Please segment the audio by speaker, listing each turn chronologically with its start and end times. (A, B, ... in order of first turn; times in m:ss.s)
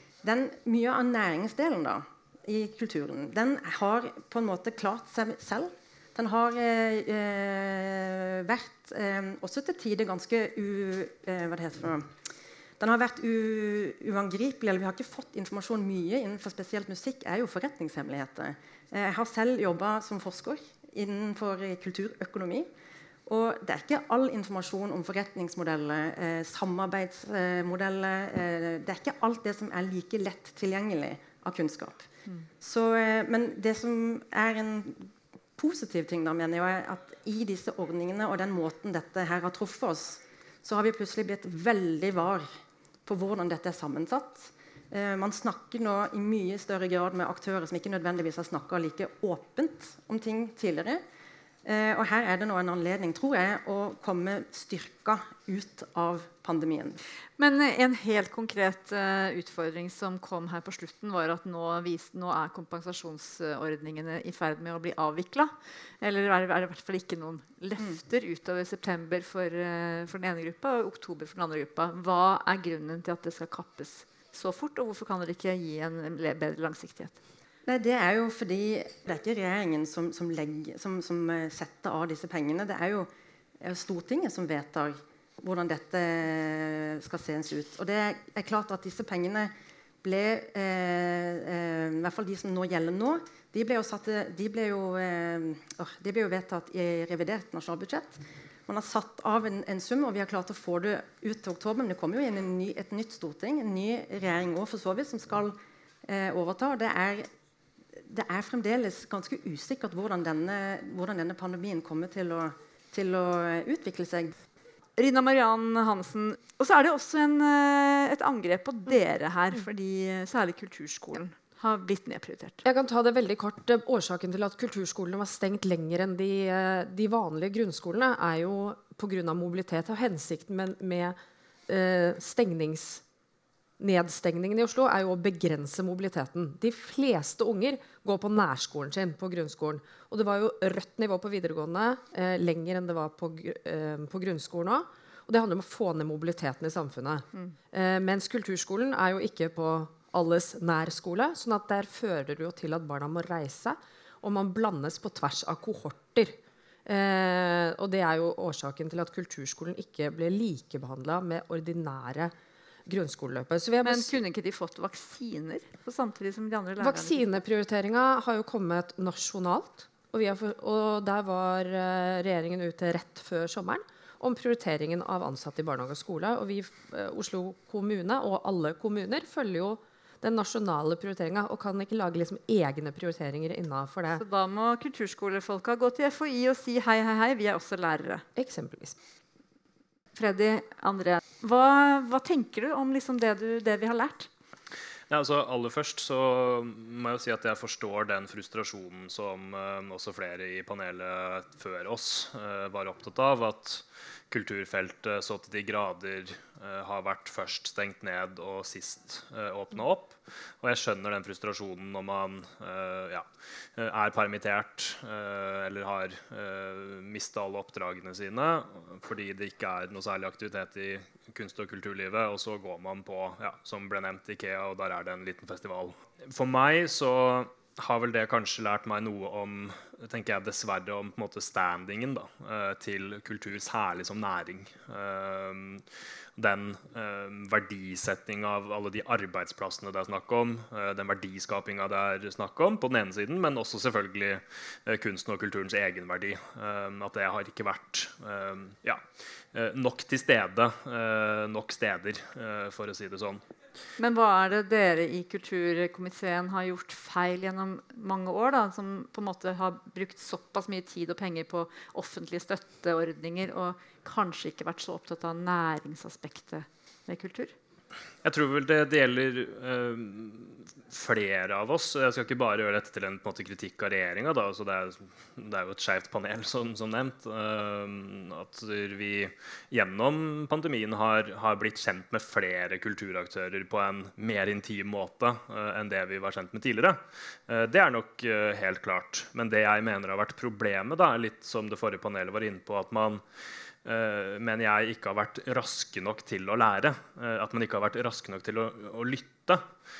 0:00.2-0:12.0 A
0:12.8-0:22.7 A
0:23.3-0:32.1 A
0:32.6-0:42.5 A
0:43.0-0:51.0 A
0:51.6-0:57.0 A
0:57.4-1:17.2 B
1:17.7-1:23.1 A
1:23.6-1:29.5 A
1:30.0-1:47.3 A
1:48.1-1:54.3 A
1:55.0-2:02.6 B
2:02.6-2:11.2 C
2:11.7-2:13.0 C
2:13.8-2:36.3 C
2:36.8-2:42.3 C
2:42.8-2:44.1 C
2:43.8-2:47.2 B
2:46.8-3:04.2 C
3:04.2-3:08.2 B
3:08.4-3:09.0 C
3:10.1-3:14.3 B
3:15.1-3:33.2 D
3:33.8-3:55.8 D
3:56.4-4:13.4 D
4:14.0-4:27.5 B
4:28.2-4:53.2 D
4:53.8-4:59.6 D